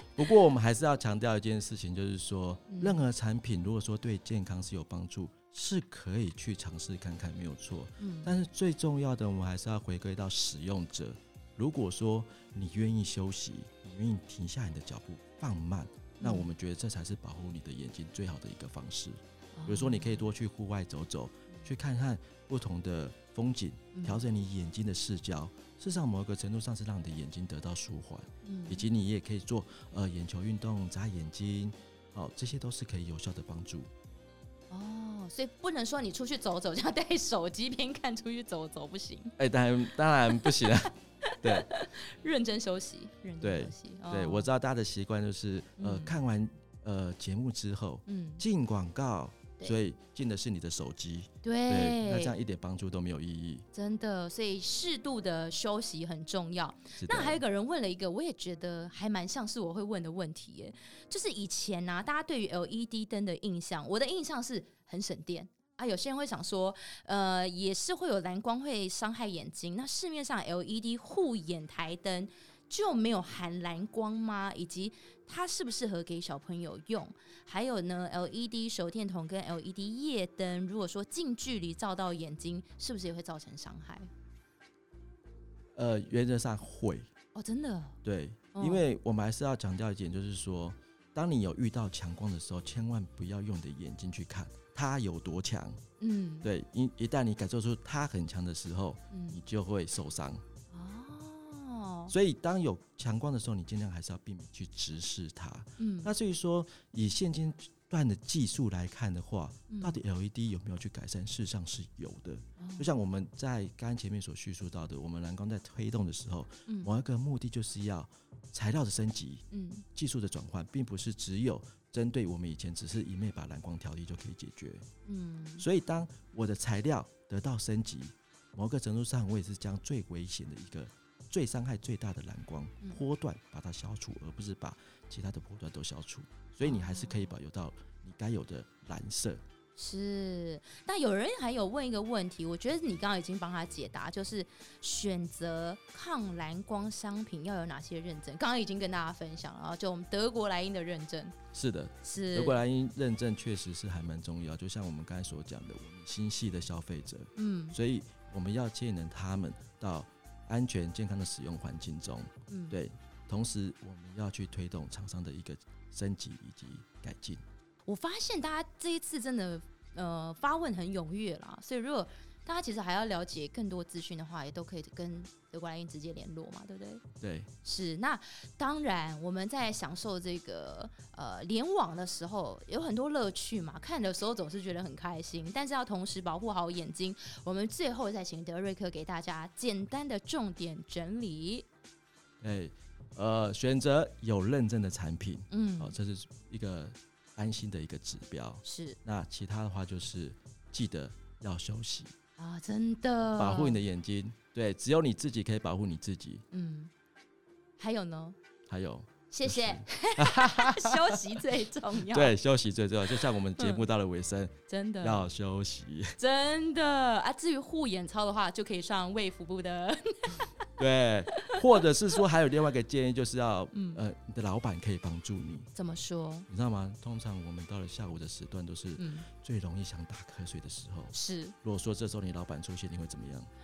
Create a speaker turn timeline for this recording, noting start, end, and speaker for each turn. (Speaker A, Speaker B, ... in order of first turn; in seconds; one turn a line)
Speaker A: 0.2-33.9
Speaker B: 2.7-3.0
Speaker B: 8.0-8.3
Speaker B: 16.2-16.5
Speaker B: 19.6-20.3
Speaker B: 23.9-24.2
Speaker B: 28.4-28.9
Speaker B: 34.7-39.4
Speaker A: 39.4-41.7
Speaker B: 40.3-44.5
Speaker A: 43.4-53.7
Speaker B: 45.8-46.1
Speaker B: 48.1-48.4
Speaker B: 51.4-52.4
Speaker B: 53.7-84.1
Speaker A: 57.0-57.4
Speaker A: 85.8-87.1
Speaker B: 87.3-88.0
Speaker A: 88.0-95.8
Speaker B: 88.5-88.8
Speaker B: 96.0-96.5
Speaker A: 96.4-100.4
Speaker B: 99.1-99.4
Speaker B: 100.7-102.1
Speaker A: 102.1-124.9
Speaker B: 105.8-106.1
Speaker B: 109.7-110.0
Speaker B: 112.6-112.9
Speaker B: 119.5-119.8
Speaker B: 125.1-125.7
Speaker A: 125.6-139.4
Speaker B: 136.6-137.2
Speaker B: 139.8-151.3
Speaker A: 151.5-167.4
Speaker B: 152.0-152.6
Speaker B: 157.4-157.8
Speaker B: 162.5-162.8
Speaker B: 167.9-177.0
Speaker A: 177.2-177.5
Speaker B: 177.6-191.7
Speaker A: 192.4-202.1
Speaker B: 195.5-195.9
Speaker B: 198.6-199.0
Speaker B: 202.4-203.8
Speaker A: 203.4-206.4
Speaker B: 206.5-206.9
Speaker B: 207.8-208.4
Speaker A: 208.7-211.4
Speaker B: 209.3-212.3
Speaker A: 212.0-216.2
Speaker B: 213.6-213.8
Speaker B: 214.7-215.2
Speaker B: 216.2-220.5
Speaker A: 220.8-225.7
Speaker B: 223.7-224.0
Speaker B: 225.8-226.5
Speaker A: 226.5-233.5
Speaker B: 229.0-229.3
Speaker B: 231.1-231.6